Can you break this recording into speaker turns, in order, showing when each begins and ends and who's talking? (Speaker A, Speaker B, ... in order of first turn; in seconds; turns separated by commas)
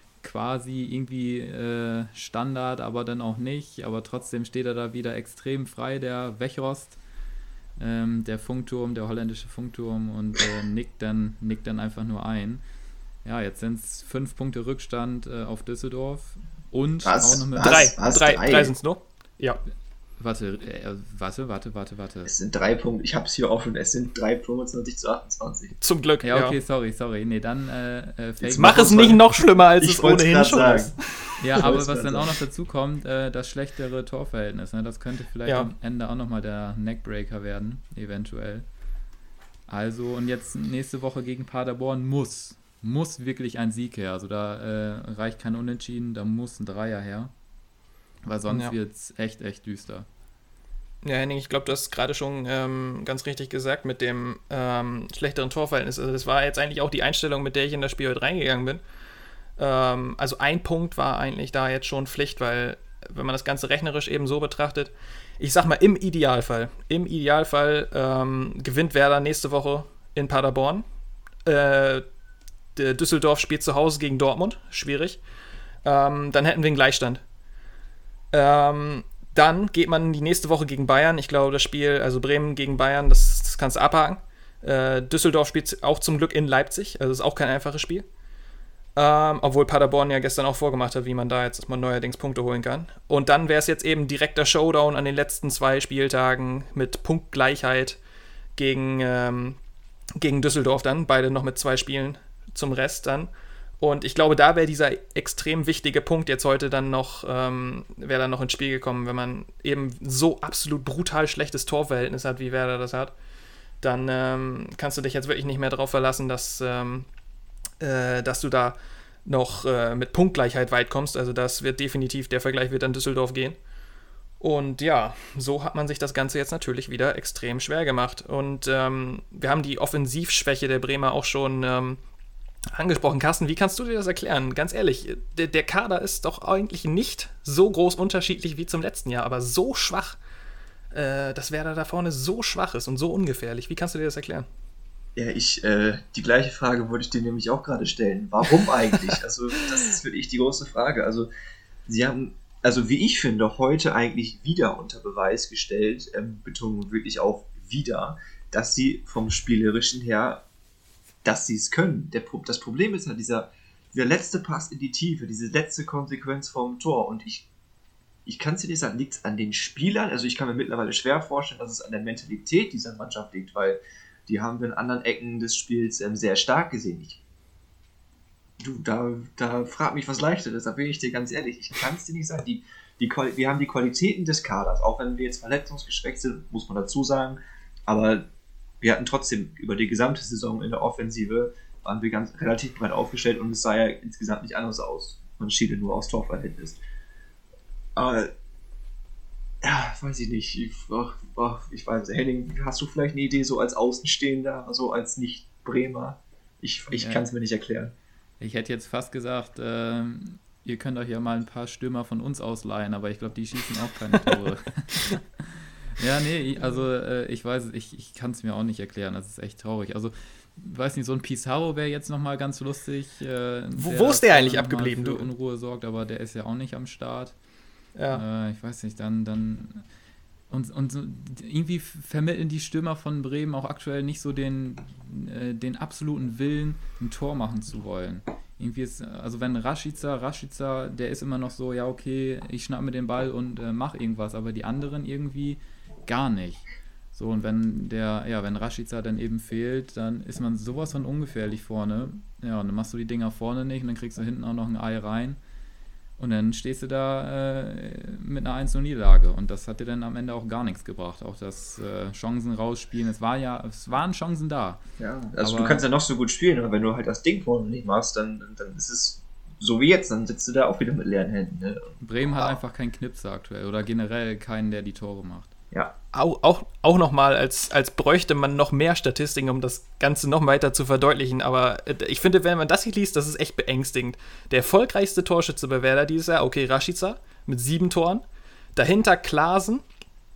Speaker A: 0.2-7.0, Speaker A: 7.8-12.6, Speaker A: 13.2-17.9, Speaker B: 17.0-18.7, Speaker C: 17.6-19.6, Speaker A: 20.2-22.3, Speaker B: 22.2-25.8, Speaker C: 25.8-26.6, Speaker A: 26.2-29.2, Speaker B: 28.4-29.2, Speaker C: 28.6-31.4, Speaker B: 29.8-32.3, Speaker A: 31.4-38.6, Speaker A: 39.7-47.3, Speaker A: 48.2-50.0, Speaker C: 48.5-48.7, Speaker C: 51.0-58.8, Speaker C: 59.6-70.8, Speaker C: 71.4-72.0, Speaker C: 72.7-75.2, Speaker C: 75.8-77.2, Speaker C: 78.3-88.0, Speaker C: 89.0-98.0, Speaker C: 98.5-99.6, Speaker C: 100.2-113.1, Speaker C: 113.8-117.1, Speaker C: 117.8-123.6, Speaker C: 124.4-132.0, Speaker C: 132.7-140.2, Speaker C: 140.9-144.5, Speaker B: 145.2-151.3, Speaker B: 151.9-160.4, Speaker B: 161.2-167.4, Speaker B: 168.2-177.2, Speaker B: 178.6-188.3, Speaker B: 188.8-196.8, Speaker B: 197.9-198.3, Speaker B: 199.6-207.9, Speaker A: 206.9-207.2, Speaker A: 208.4-227.3, Speaker C: 223.7-225.3, Speaker C: 227.9-228.2, Speaker A: 228.1-229.8, Speaker A: 230.5-255.4, Speaker A: 256.2-264.8, Speaker B: 265.0-272.6, Speaker A: 265.4-265.8, Speaker A: 272.0-275.5, Speaker C: 276.1-288.2, Speaker C: 288.8-289.8